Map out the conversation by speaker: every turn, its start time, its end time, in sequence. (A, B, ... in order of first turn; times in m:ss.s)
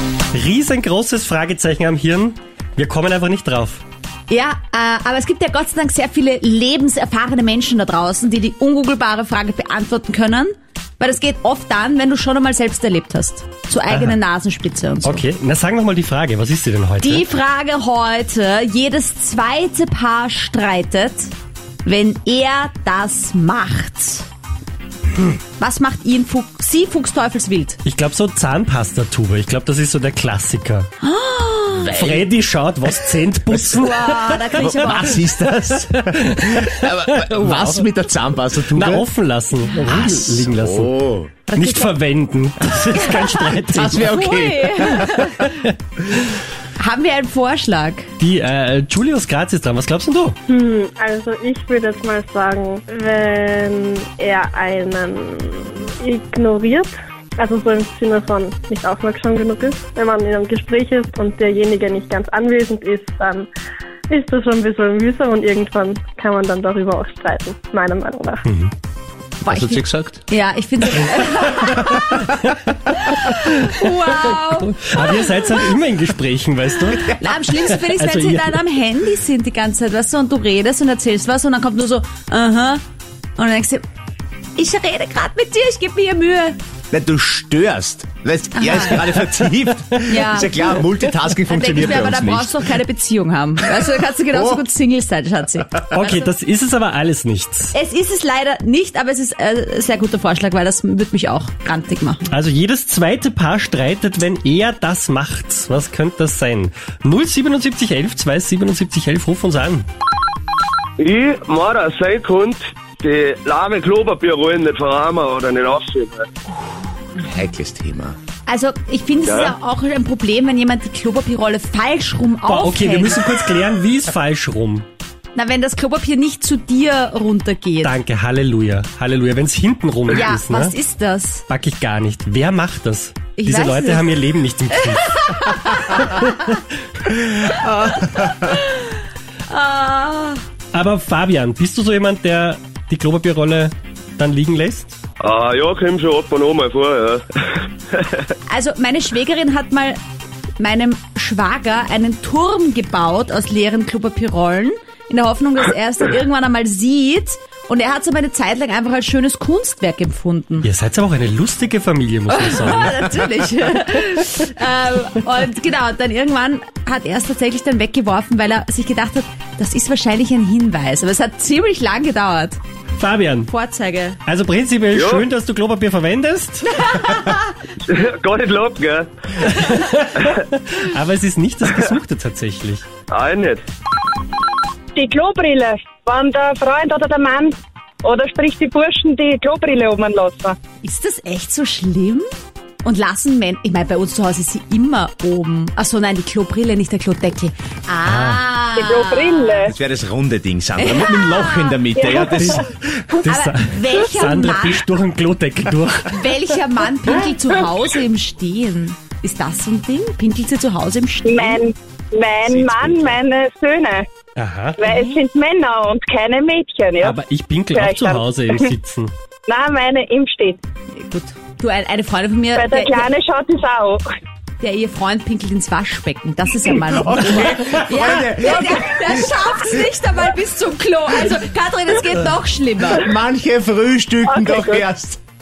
0:00.3-0:03.8 A
0:04.3-0:15.2 B
0:13.9-0:14.2 A
0:15.0-0:17.3 A
0:17.0-0:21.3 B
0:21.8-0:24.3 B
0:25.6-0:27.8 B
0:27.8-0:30.9 A
0:31.0-0:32.2 B
0:31.9-0:34.5 A
0:33.8-0:35.2 B
0:34.6-0:39.1 C
0:35.6-0:37.8 A
0:38.7-0:41.0 A
0:39.7-0:40.4 B
0:40.1-0:41.3 C
0:41.5-0:42.0 B
0:41.5-0:44.1 A
0:42.9-0:45.5 B
0:43.7-0:45.3 C
0:45.1-0:45.7 A
0:46.8-0:48.1 B
0:48.2-0:50.4 A
0:50.5-1:03.5 D
1:04.1-1:08.4 D
1:09.4-1:12.4 B
1:09.5-1:10.2 C
1:12.3-1:12.6 A
1:12.9-1:15.5 B
1:13.3-1:13.8 A
1:14.8-1:18.6 A
1:17.1-1:22.8 B
1:23.4-1:23.8 B
1:24.6-1:26.6 B
1:26.9-1:32.8 C
1:28.6-1:29.1 B
1:30.1-1:30.8 B
1:31.4-1:36.3 B
1:34.3-1:34.6 C
1:35.9-1:37.7 A
1:37.7-1:42.3 B
1:42.3-1:49.9 A
1:51.0-1:56.3 E
1:57.2-1:58.2 C
1:58.5-2:03.3 B
1:59.3-1:59.6 E
2:02.5-2:04.9 A
2:05.4-2:08.0 B
2:07.8-2:10.8 A
2:10.1-2:11.4 B
2:11.5-2:16.5 A
2:13.4-2:14.2 B
2:14.7-2:16.6 B
2:17.3-2:18.9 B
2:19.5-2:20.4 B
2:20.7-2:25.0 A
2:25.2-2:28.2 E
2:28.5-2:30.0 B
2:30.6-2:40.7 B
2:40.6-2:43.1 A
2:42.3-2:52.6 B
2:53.0-2:53.5 A
2:53.5-2:54.2 B
2:54.3-2:57.1 A
2:54.9-2:55.3 E
2:56.9-2:57.3 B
2:57.8-2:59.1 E
2:59.4-3:02.9 A
3:03.1-3:03.6 E
3:05.0-3:10.6 F
3:10.8-3:12.3 B
3:12.8-3:19.7 B
3:18.1-3:18.4 A
3:18.8-3:19.7 F
3:19.7-3:23.2 C
3:20.8-3:21.8 B
3:22.0-3:22.6 F
3:22.3-3:22.6 A
3:23.2-3:26.3 A
3:23.3-3:24.8 B
3:26.1-3:31.6 B
3:31.2-3:34.1 F
3:32.5-3:33.2 C
3:34.4-3:34.8 A
3:34.8-3:37.2 F
3:34.8-3:35.2 B
3:37.0-3:39.1 A
3:37.7-3:38.7 F
3:39.5-3:40.6 F
3:40.9-3:43.1 B
3:42.6-3:44.0 F
3:44.6-3:53.1 B
3:46.9-3:49.3 C
3:48.5-3:48.7 F
3:52.9-3:55.2 C
3:54.3-3:54.8 F